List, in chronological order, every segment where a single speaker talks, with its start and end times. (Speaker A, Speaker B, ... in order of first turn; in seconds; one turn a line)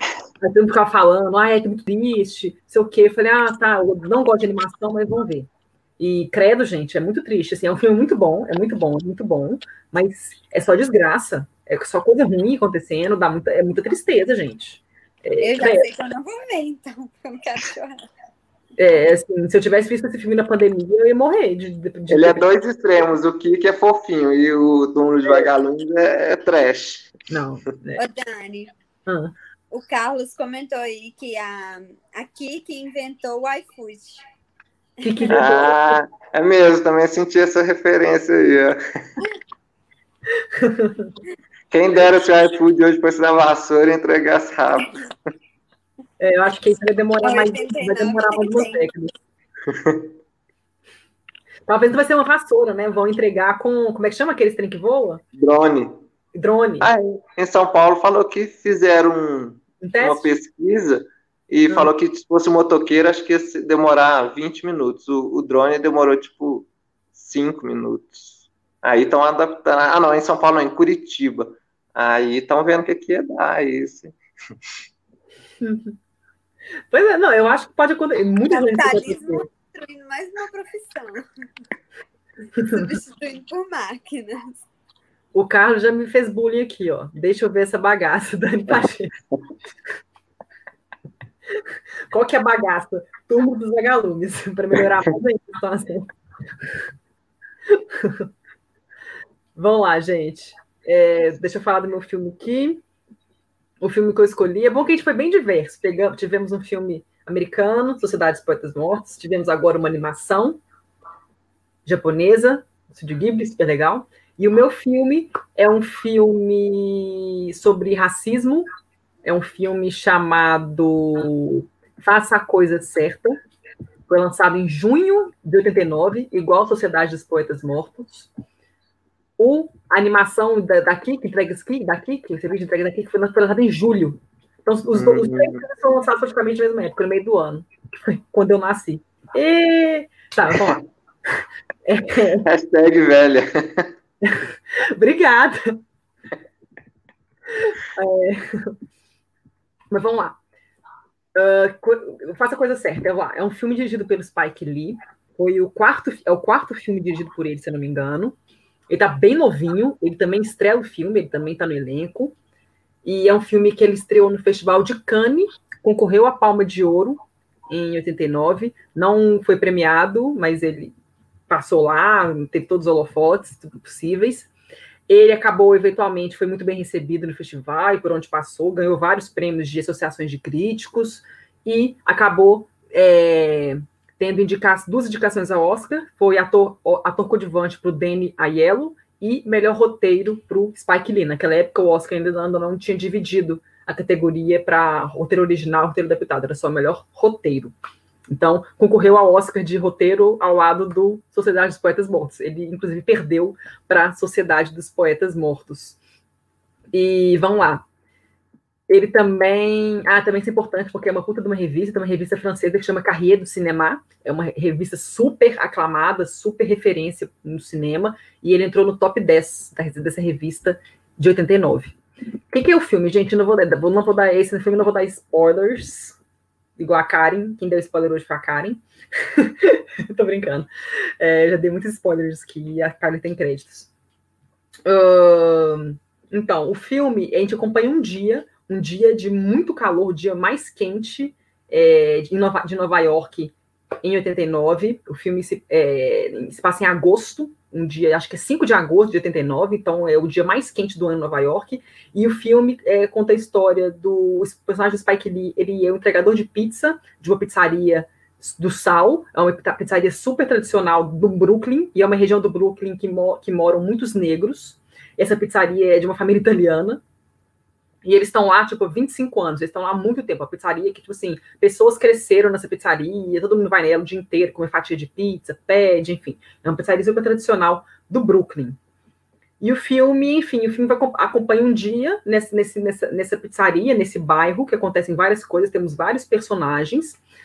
Speaker A: 0.4-15.9
Speaker B: 15.4-18.1
Speaker A: 18.8-22.4
Speaker C: 22.1-27.1
Speaker A: 27.3-28.0
Speaker B: 28.0-28.7
Speaker A: 29.1-29.3
Speaker B: 29.7-34.2
Speaker A: 35.0-36.0
Speaker B: 35.0-35.4
Speaker C: 35.3-39.2
Speaker A: 40.5-41.1
Speaker C: 41.7-45.0
Speaker A: 46.2-49.1
Speaker B: 47.2-48.8
Speaker C: 49.7-50.1
Speaker A: 51.7-55.2
Speaker C: 55.4-56.0
Speaker A: 56.3-56.9
Speaker C: 56.8-74.1
Speaker A: 59.8-60.3
Speaker A: 75.6-76.0
Speaker A: 76.9-79.4
Speaker B: 78.5-81.2
Speaker A: 82.6-82.9
Speaker B: 82.6-84.6
Speaker A: 85.3-89.1
Speaker A: 91.5-96.8
Speaker A: 97.7-98.3
Speaker A: 99.5-102.8
Speaker A: 103.8-110.6
Speaker A: 111.8-118.7
Speaker A: 119.2-123.4
Speaker A: 124.1-128.3
Speaker A: 129.4-140.8
Speaker C: 134.9-135.6
Speaker C: 140.5-140.8
Speaker A: 141.3-142.4
Speaker C: 142.4-143.9
Speaker A: 144.2-145.8
Speaker A: 147.5-148.8
Speaker A: 149.9-150.4
Speaker A: 151.3-158.3
Speaker A: 158.9-162.3
Speaker A: 163.0-170.9
Speaker A: 171.5-174.5
Speaker A: 175.1-197.7
Speaker A: 198.3-206.0
Speaker A: 206.9-207.8
Speaker A: 208.9-221.9
Speaker A: 222.5-226.2
Speaker A: 226.8-233.9
Speaker A: 234.8-267.0
Speaker A: 268.0-278.8
Speaker A: 279.6-287.2